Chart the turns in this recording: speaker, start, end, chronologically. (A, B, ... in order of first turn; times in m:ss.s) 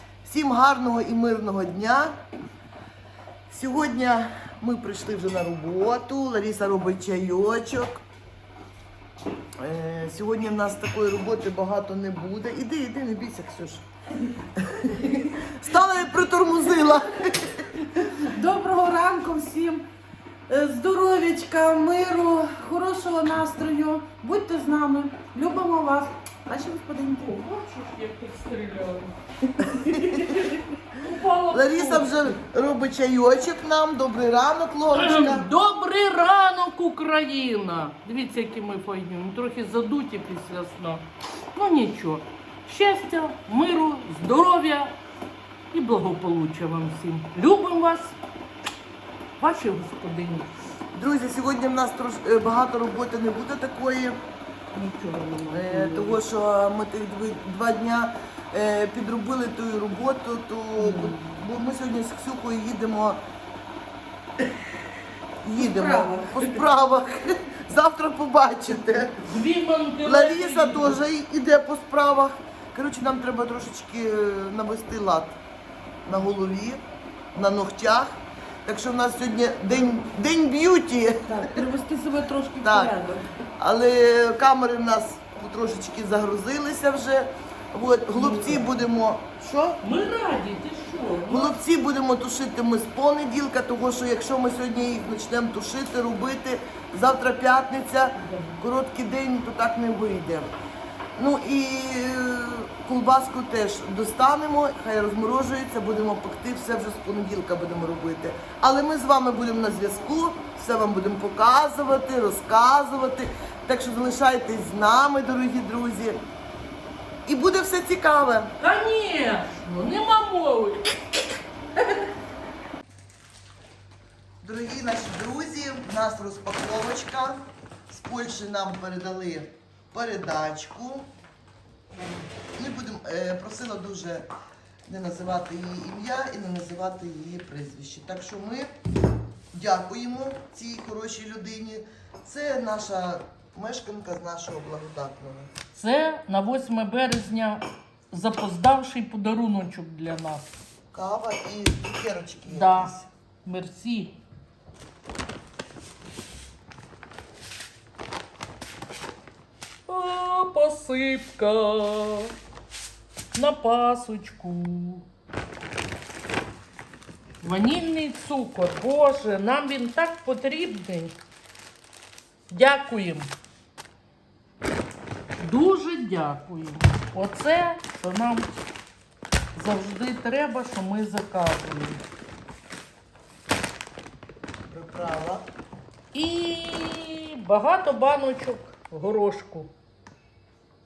0:00.2-0:02.2 A
0:03.5-0:08.0 A
0:09.6-0:13.8 A
0:14.6-0:18.1 A
0:18.1-0:19.8 B
0:20.5-0:27.4 B
0:27.3-0:32.4 C
0:29.8-0:30.3 A
0:31.5-0:35.4 A
0:34.9-0:45.0 C
0:45.7-0:48.1 C
0:49.4-0:50.5 C
0:50.9-0:54.2 A
0:54.7-0:56.2 C
0:55.5-1:03.2 A
1:05.4-1:09.3 A
1:05.6-1:06.6 B
1:09.2-1:11.0 C
1:10.0-1:15.4 A
1:16.0-1:16.8 A
1:17.3-1:21.6 A
1:21.3-1:23.3 B
1:22.6-1:22.9 A
1:23.6-1:29.8 A
1:28.2-1:28.6 B
1:29.8-1:31.5 C
1:31.3-1:40.5 A
1:38.2-1:38.6 C
1:41.2-1:56.2 A
1:57.3-1:58.5 A
1:58.6-2:01.0 C
2:04.4-2:11.1 A
2:12.6-2:14.3 A
2:14.9-2:18.7 A
2:19.5-2:25.5 A
2:25.7-2:30.4 C
2:30.9-2:33.0 A
2:32.5-2:34.2 C
2:39.9-2:42.3 C
2:43.3-2:45.0 C
2:47.4-2:51.2 C
2:52.5-2:53.3 C
2:55.4-2:58.5 C
2:59.5-3:02.0 C
3:04.7-3:05.5 A
3:06.1-3:09.7 C